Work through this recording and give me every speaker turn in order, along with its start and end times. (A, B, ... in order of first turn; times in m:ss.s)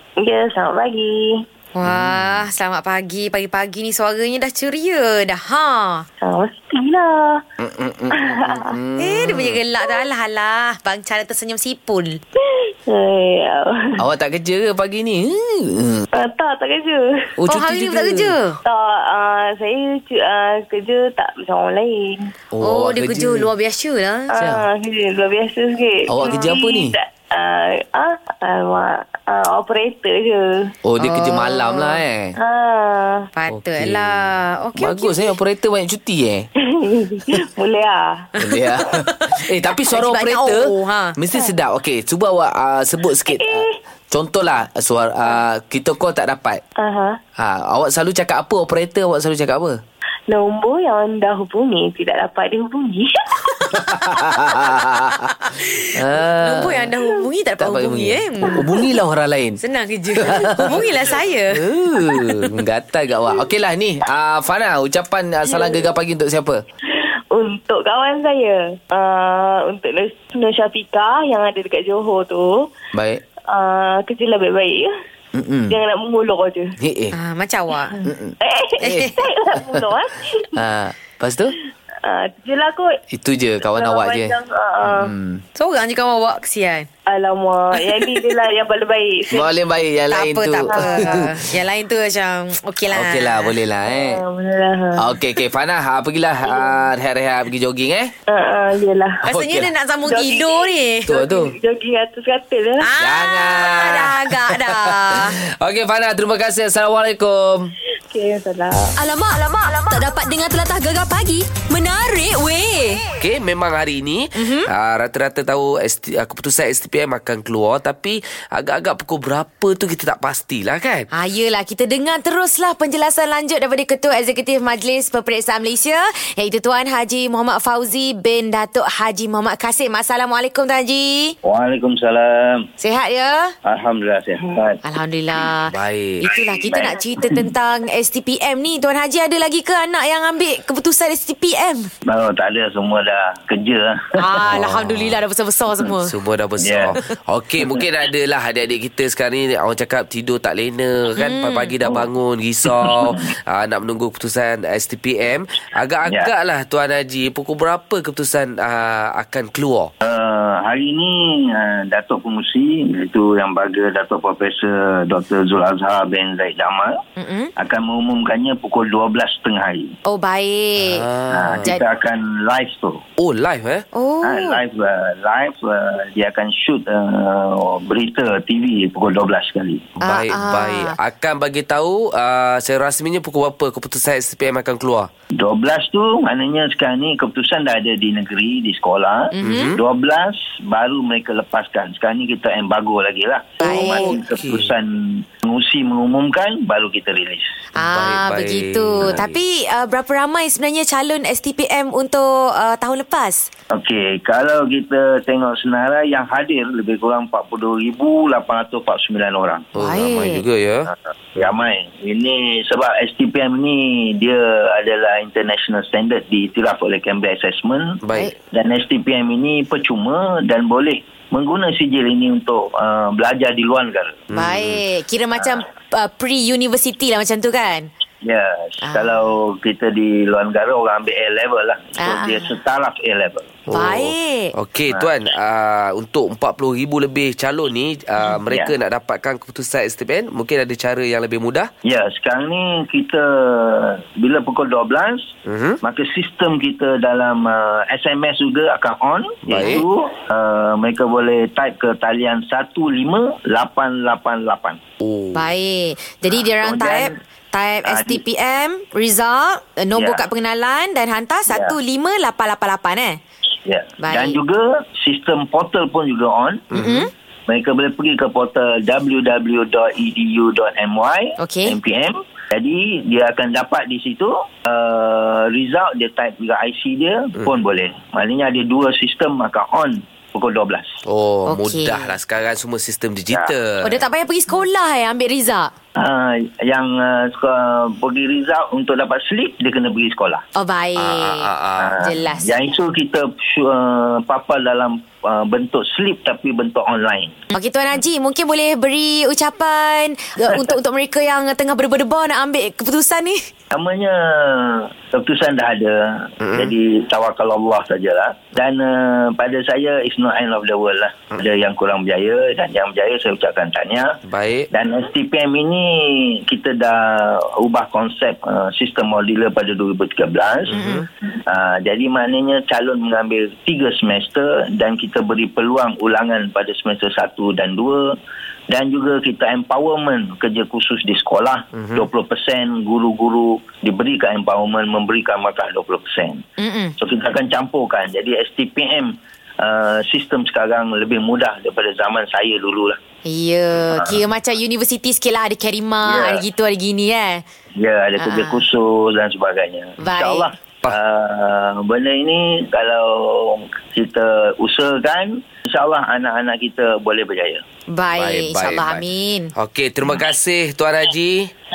0:00.2-0:01.4 A
0:01.7-0:06.0 B
0:01.8-0:02.4 C
0:06.2-0:07.4 A
0:07.6-0:09.6 C
0:08.3-0:08.6 A
0:09.0-0:12.2 B
0:12.4-0:14.0 A
0:14.0-0:16.0 C
0:16.1-0:17.3 A
0:17.4-0:18.4 C
0:17.5-0:18.6 B
0:18.6-0:22.3 A
0:22.5-0:23.5 C
0:22.6-0:24.3 B
0:24.3-0:30.7 A
0:24.4-0:24.6 C
0:26.1-0:26.9 C
0:30.8-0:32.4 C
0:31.0-0:32.0 B
0:32.4-0:33.3 A
0:33.3-0:35.3 B
0:33.5-0:36.5 C
0:36.6-0:38.2 A
0:38.4-0:46.6 C
0:39.9-0:41.2 B
0:43.3-0:43.8 A
0:46.8-0:47.2 A
0:47.4-0:49.8 C
0:50.3-0:53.2 A
0:53.8-0:55.2 C
0:55.4-0:55.7 B
0:55.8-0:56.9 C
0:56.4-0:58.6 B
0:57.6-0:59.6 C
0:59.6-1:01.6 B
1:00.2-1:00.8 C
1:01.5-1:06.6 C
1:05.5-1:05.8 A
1:06.9-1:12.7 A
1:12.9-1:13.2 C
1:13.5-1:14.9 A
1:15.3-1:15.8 C
1:15.7-1:16.7 A
1:16.8-1:17.2 C
1:17.1-1:17.9 B
1:18.0-1:19.2 C
1:18.4-1:20.5 A
1:18.8-1:19.1 B
1:20.5-1:21.6 C
1:22.0-1:23.0 A
1:23.1-1:25.4 C
1:23.6-1:25.1 A
1:25.6-1:26.9 B
1:27.0-1:29.5 A
1:29.3-1:31.3 C
1:30.1-1:33.5 B
1:30.7-1:31.2 A
1:32.9-1:34.2 C
1:33.8-1:35.0 A
1:35.0-1:38.1 C
1:36.4-1:36.8 A
1:38.3-1:39.2 A
1:39.2-1:39.7 C
1:39.2-1:41.1 B
1:40.0-1:42.9 A
1:41.1-1:41.6 C
1:42.8-1:45.4 B
1:43.0-1:47.7 C
1:48.1-1:48.9 A
1:49.0-1:53.0 D
1:53.2-2:01.1 C
1:54.4-1:54.7 B
2:01.1-2:11.4 B
2:11.4-2:12.7 E
2:12.8-2:13.5 B
2:13.6-2:14.8 E
2:14.8-2:21.9 B
2:15.7-2:16.3 C
2:16.6-2:17.4 E
2:22.0-2:24.4 E
2:24.2-2:26.1 B
2:24.5-2:25.2 C
2:26.0-2:39.9 C
2:26.6-2:27.0 E
2:31.2-2:31.7 B
2:32.7-2:33.1 E
2:40.0-2:47.0 E
2:47.2-2:47.5 B
2:47.6-2:49.9 E
2:50.1-2:51.0 B
2:50.8-2:51.7 C
2:51.3-2:53.0 E
2:53.2-2:53.8 C
2:53.9-2:54.6 B
2:54.2-2:59.9 E
3:00.0-3:05.1 C
3:00.0-3:01.0 B
3:05.4-3:17.6 E
3:09.3-3:09.8 B
3:09.4-3:09.8 C
3:13.6-3:14.2 B
3:13.6-3:14.7 C
3:17.8-3:23.5 B
3:17.8-3:19.4 C
3:23.7-3:29.7 E
3:29.7-3:31.5 C
3:29.8-3:30.4 B
3:31.0-3:38.0 E
3:38.0-3:38.3 C
3:38.5-3:44.2 E
3:44.3-3:44.8 C
3:44.3-3:47.9 B
3:48.2-3:53.6 E
3:48.8-3:49.2 B
3:52.0-3:52.5 B
3:53.7-4:01.7 C
3:53.7-3:54.5 B
4:01.8-4:05.3 E
4:05.4-4:05.8 C
4:05.8-4:14.8 E
4:09.5-4:09.8 C
4:15.0-4:15.5 C
4:15.3-4:23.2 B
4:16.3-4:17.1 E
4:17.8-4:18.2 E
4:19.9-4:20.2 E
4:21.5-4:21.8 E
4:23.6-4:26.7 E
4:24.0-4:24.4 B
4:26.7-4:27.1 B
4:26.7-4:27.0 C
4:27.5-4:40.9 E
4:31.4-4:31.8 B
4:41.0-4:44.0 C
4:41.5-4:42.1 B
4:43.8-4:45.7 B
4:46.0-4:50.4 E
4:50.5-4:52.5 B
4:51.0-4:52.0 C
4:51.8-4:57.3 E
4:57.5-5:03.4 B
5:03.7-5:14.2 E
5:06.4-5:06.7 C
5:14.2-5:14.7 C
5:14.7-5:20.8 E
5:20.7-5:21.0 C
5:20.7-5:21.0 B
5:21.3-5:28.2 E
5:28.7-5:36.4 E
5:31.7-5:32.0 C
5:36.6-5:36.9 B
5:37.0-5:43.0 E
5:43.2-5:47.4 B
5:43.9-5:44.2 E
5:46.0-5:46.4 E
5:47.8-5:57.6 E
5:48.2-5:48.6 B
5:50.0-5:50.5 B
5:57.9-5:59.5 B
5:58.2-5:59.0 C
5:59.6-6:01.5 C